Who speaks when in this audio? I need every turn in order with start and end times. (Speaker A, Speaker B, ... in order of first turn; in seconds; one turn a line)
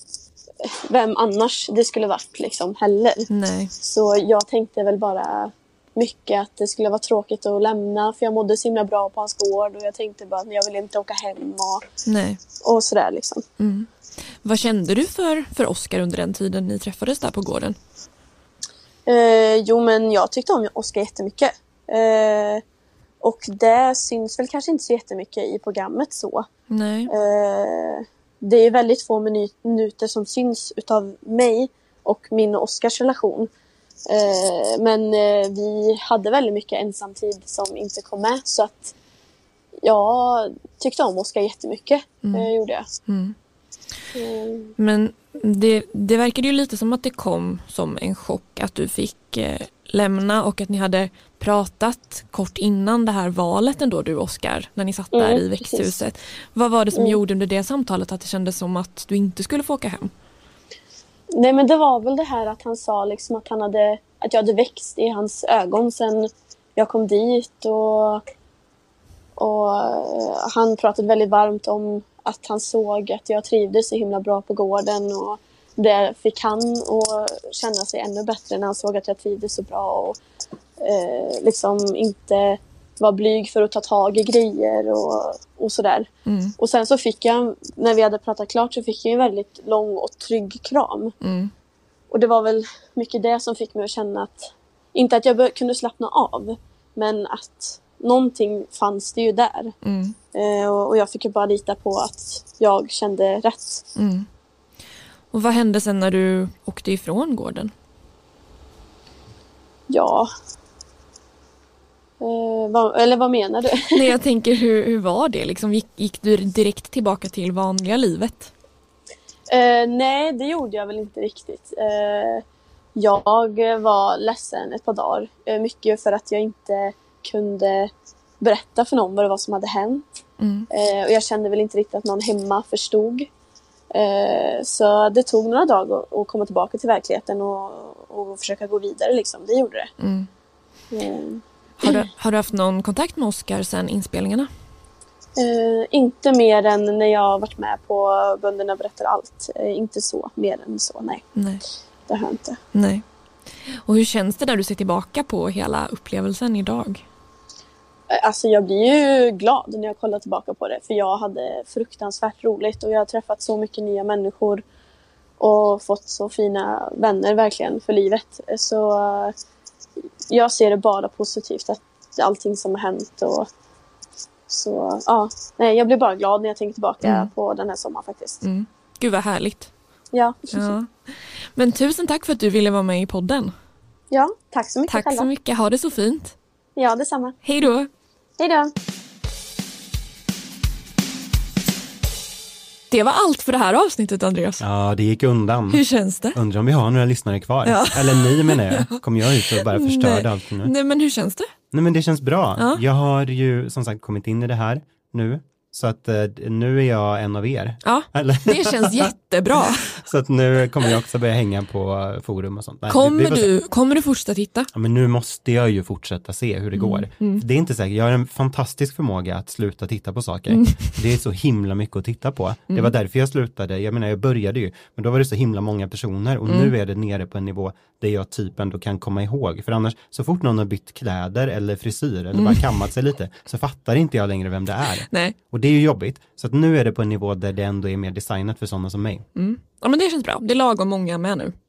Speaker A: 0.6-3.3
Speaker B: 3.3-3.7
Speaker A: 3.8-11.8
Speaker B: 12.1-12.4
Speaker A: 12.6-13.4
Speaker B: 13.6-13.9
Speaker B: 14.4-17.8
Speaker A: 19.1-22.6
Speaker A: 23.2-26.5
Speaker B: 26.7-27.1
Speaker A: 27.1-33.5
Speaker A: 34.1-38.9
Speaker A: 39.8-42.9
Speaker B: 42.2-42.5
Speaker B: 43.1-43.4
Speaker A: 44.1-44.7
Speaker B: 44.8-60.1
Speaker A: 55.1-56.0
Speaker A: 61.3-68.2
Speaker A: 69.4-80.2
Speaker A: 80.8-91.2
Speaker B: 86.3-86.5
Speaker B: 91.2-91.5
Speaker A: 92.1-99.8
Speaker B: 99.8-100.2
Speaker A: 100.3-103.8
Speaker B: 104.0-104.3
Speaker B: 105.3-107.7
Speaker A: 109.9-110.3
Speaker A: 112.2-114.1
Speaker B: 113.9-118.5
Speaker A: 119.5-122.4
Speaker A: 123.0-130.0
Speaker B: 130.4-130.7
Speaker A: 130.7-133.3
Speaker A: 133.9-139.9
Speaker B: 140.0-140.3
Speaker A: 140.9-142.0
Speaker B: 141.8-144.5
Speaker A: 145.4-151.2
Speaker B: 151.4-151.6
Speaker A: 152.1-152.6
Speaker B: 152.7-153.0
Speaker B: 153.9-157.0
Speaker A: 158.1-164.6
Speaker A: 165.4-169.3
Speaker A: 170.3-173.5
Speaker A: 174.5-178.4
Speaker B: 177.0-177.3
Speaker B: 178.4-179.7
Speaker A: 180.1-180.8
Speaker B: 180.5-180.9
Speaker B: 181.6-183.5
Speaker A: 184.1-185.3
Speaker B: 184.9-186.3
Speaker A: 186.8-187.4
Speaker B: 187.4-187.9
Speaker A: 188.4-188.7
Speaker B: 192.9-194.6
Speaker C: 194.6-200.7
Speaker B: 195.7-196.4
Speaker B: 197.7-199.0
Speaker B: 199.5-201.5
Speaker C: 201.7-213.5
Speaker B: 202.6-202.8
Speaker B: 207.8-209.9
Speaker B: 212.9-214.7
Speaker C: 214.7-239.2
Speaker B: 216.8-217.4
Speaker B: 220.5-220.9
Speaker B: 226.5-226.7
Speaker B: 232.3-232.7
Speaker B: 235.1-235.4
Speaker B: 239.3-241.5